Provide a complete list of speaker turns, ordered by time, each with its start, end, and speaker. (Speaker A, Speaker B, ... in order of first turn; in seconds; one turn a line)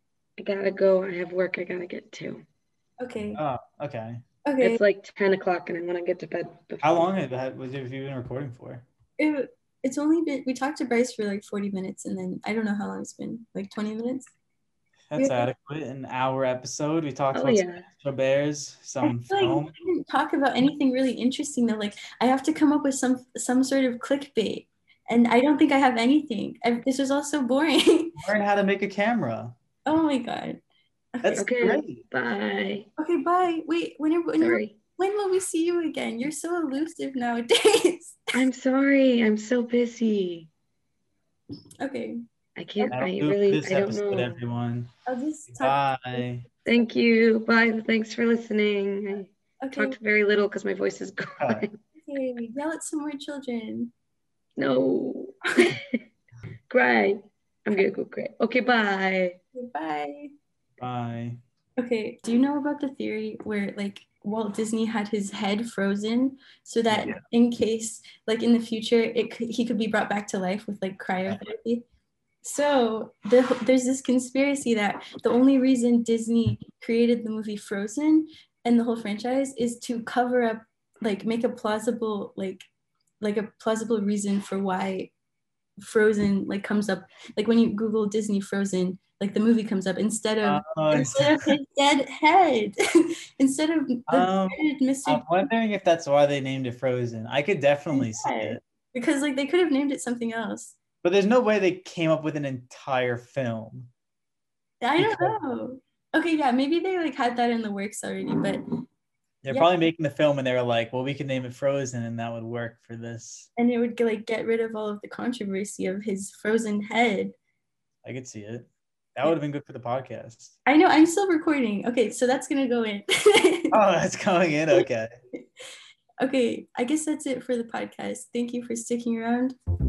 Speaker A: 0.4-2.4
Speaker B: 3.0-3.4
Speaker C: 3.3-4.2
Speaker B: 4.4-4.8
Speaker A: 4.6-7.1
Speaker C: 6.8-8.8
Speaker B: 9.2-14.3
Speaker C: 15.1-19.7
Speaker B: 15.1-15.5
Speaker A: 17.3-17.9
Speaker B: 19.0-28.2
Speaker C: 28.2-29.6
Speaker B: 29.9-30.6
Speaker B: 31.1-31.5
Speaker C: 31.2-32.0
Speaker A: 31.3-32.9
Speaker B: 33.0-38.2
Speaker A: 34.4-34.8
Speaker A: 38.3-40.5
Speaker B: 41.8-42.2
Speaker A: 42.5-44.4
Speaker C: 42.9-44.9
Speaker B: 45.0-45.8
Speaker C: 45.5-46.5
Speaker A: 46.6-51.8
Speaker B: 49.6-50.0
Speaker C: 51.4-51.7
Speaker B: 52.0-53.9
Speaker A: 54.6-56.0
Speaker A: 56.7-59.4
Speaker B: 59.5-60.3
Speaker C: 60.8-61.4
Speaker B: 61.8-71.8
Speaker C: 66.9-67.2
Speaker C: 71.2-71.5
Speaker B: 72.4-82.6
Speaker B: 83.2-85.1
Speaker B: 85.8-95.5
Speaker C: 90.4-91.5
Speaker C: 94.1-98.6
Speaker B: 97.9-100.8
Speaker C: 101.0-103.9
Speaker B: 104.8-108.6
Speaker C: 105.0-105.4
Speaker C: 109.4-113.5
Speaker B: 113.5-117.3
Speaker C: 118.0-120.5
Speaker B: 120.7-123.8
Speaker C: 123.7-125.2
Speaker B: 126.2-129.5